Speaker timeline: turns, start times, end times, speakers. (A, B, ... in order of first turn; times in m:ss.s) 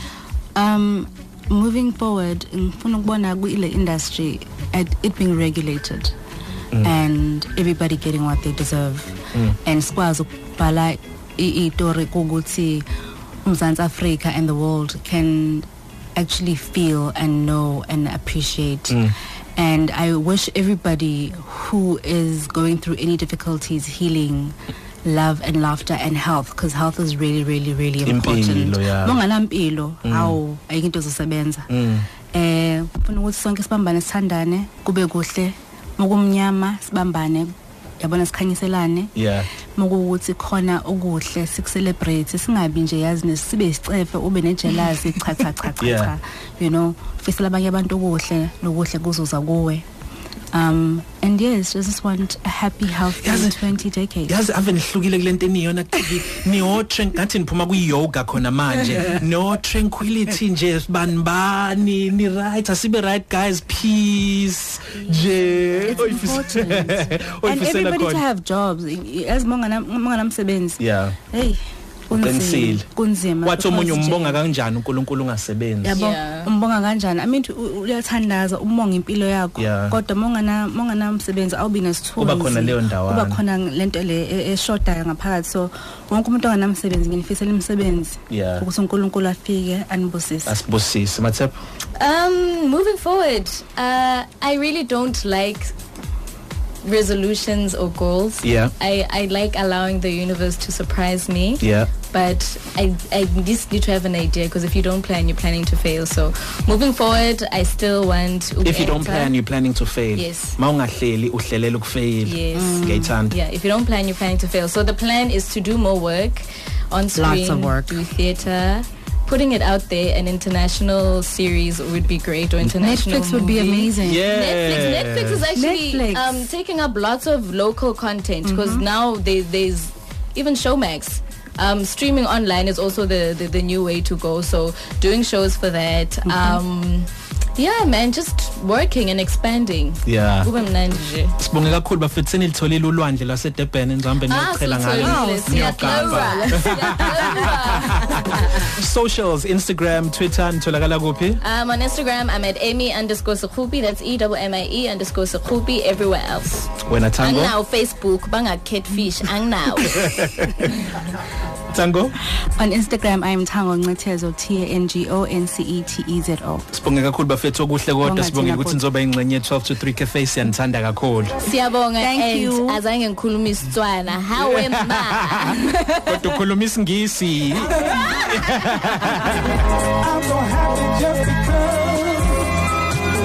0:00.6-0:06.1 A
0:06.8-0:12.8 A
0:13.4-0:19.0 A
0:18.9-0:19.1 B
0:19.6-0:31.7 A
0:28.0-0:29.2 B
0:30.0-0:30.4 B
0:31.7-0:32.1 B
0:32.3-0:39.1 A
0:39.1-0:39.5 B
0:39.8-0:49.8 A
0:45.8-0:46.1 B
0:50.5-0:54.4 A
0:53.2-0:53.6 B
0:54.3-1:08.2 B
1:05.3-1:10.8 A
1:10.8-1:11.2 B
1:11.3-1:11.6 A
1:12.1-1:14.4 A
1:12.1-1:12.8 B
1:13.4-1:16.0 B
1:15.8-1:30.6 A
1:16.0-1:16.5 C
1:19.6-1:20.0 B
1:22.2-1:23.4 B
1:28.3-1:28.6 B
1:30.5-1:31.6 B
1:32.0-1:35.7 C
1:36.8-1:49.3 C
1:38.4-1:38.7 B
1:41.6-1:41.9 B
1:48.6-1:53.3 B
1:50.1-1:50.6 C
1:52.2-2:21.4 C
1:52.5-1:53.1 A
1:57.1-1:58.0 A
2:02.6-2:04.3 A
2:04.0-2:05.5 B
2:05.5-2:06.4 A
2:08.4-2:08.8 A
2:16.3-2:16.6 A
2:20.1-2:20.5 B
2:21.4-2:31.4 B
2:24.3-2:28.7 C
2:24.9-2:28.1 A
2:31.4-2:40.5 C
2:36.8-2:37.5 B
2:39.8-2:41.1 B
2:41.7-2:42.2 B
2:42.4-2:46.6 A
2:46.7-2:51.4 B
2:48.0-2:48.8 A
2:51.4-2:56.4 C
2:52.0-2:52.8 A
2:54.5-2:59.6 B
3:00.1-3:02.3 D